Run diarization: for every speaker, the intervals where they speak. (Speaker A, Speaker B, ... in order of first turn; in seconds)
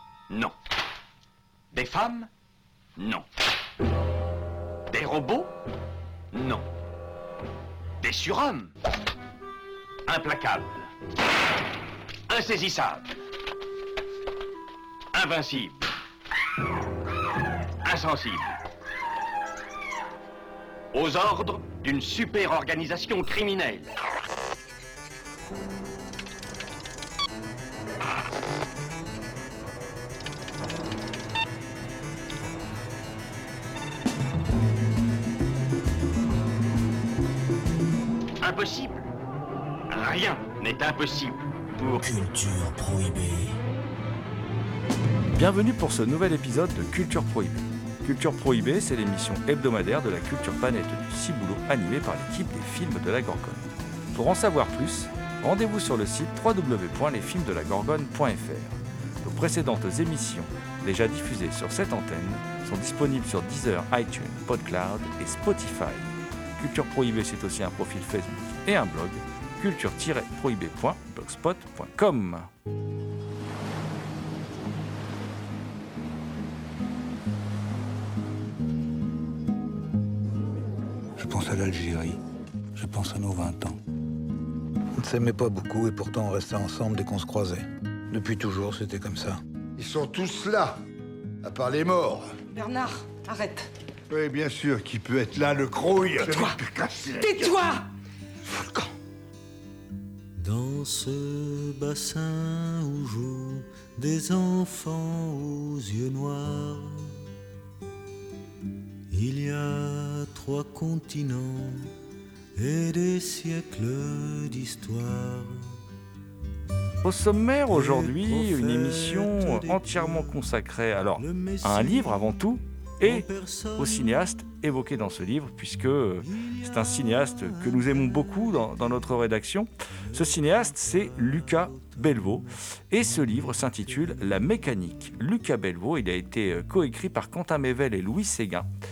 Speaker A: 0.3-0.6, 1.7-2.3, 3.0-3.3, 4.9-5.5, 6.3-6.7, 8.0-8.8, 10.1-10.9, 12.3-13.1, 15.1-15.8, 17.8-18.6, 20.9-23.9, 38.4-39.1, 39.9-42.4
Speaker B: 45.3-72.5, 117.0-138.7
Speaker C: 81.2-82.2, 82.8-83.8, 85.0-89.4
Speaker D: 89.8-90.8, 91.4-92.4, 94.1-97.5
Speaker E: 92.5-93.7, 96.2-96.6, 97.2-97.8
Speaker F: 100.4-107.3, 109.1-112.0, 112.6-115.8, 117.7-120.4, 121.2-122.4, 123.0-124.3, 126.2-129.1, 130.1-134.7